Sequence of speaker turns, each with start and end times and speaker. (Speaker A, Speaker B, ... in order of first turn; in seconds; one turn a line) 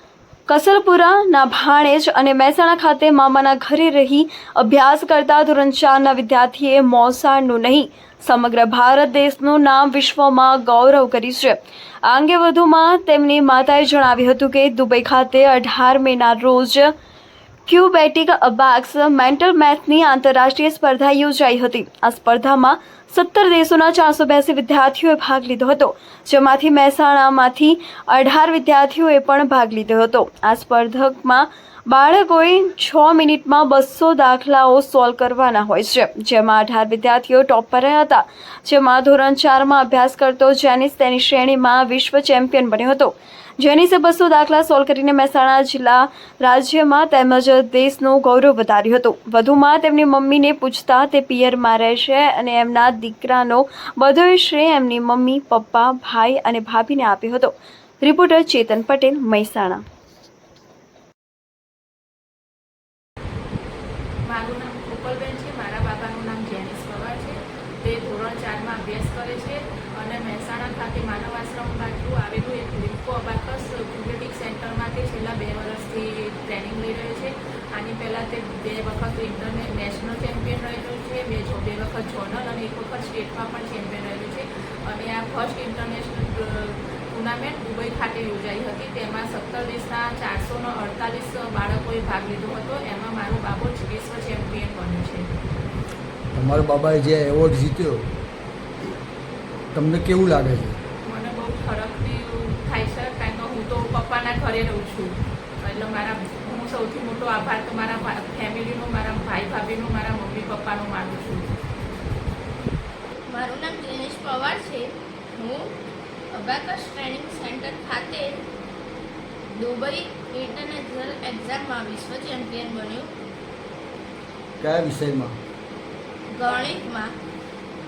Speaker A: 0.5-16.9
Speaker A: 17.7-59.8
Speaker B: 64.3-95.3
Speaker C: 96.3-98.1
Speaker C: 99.7-100.8
Speaker B: 101.0-111.5
Speaker D: 113.3-115.7
Speaker D: 116.3-118.4
Speaker D: 119.5-123.1
Speaker C: 124.6-125.4
Speaker D: 126.3-127.2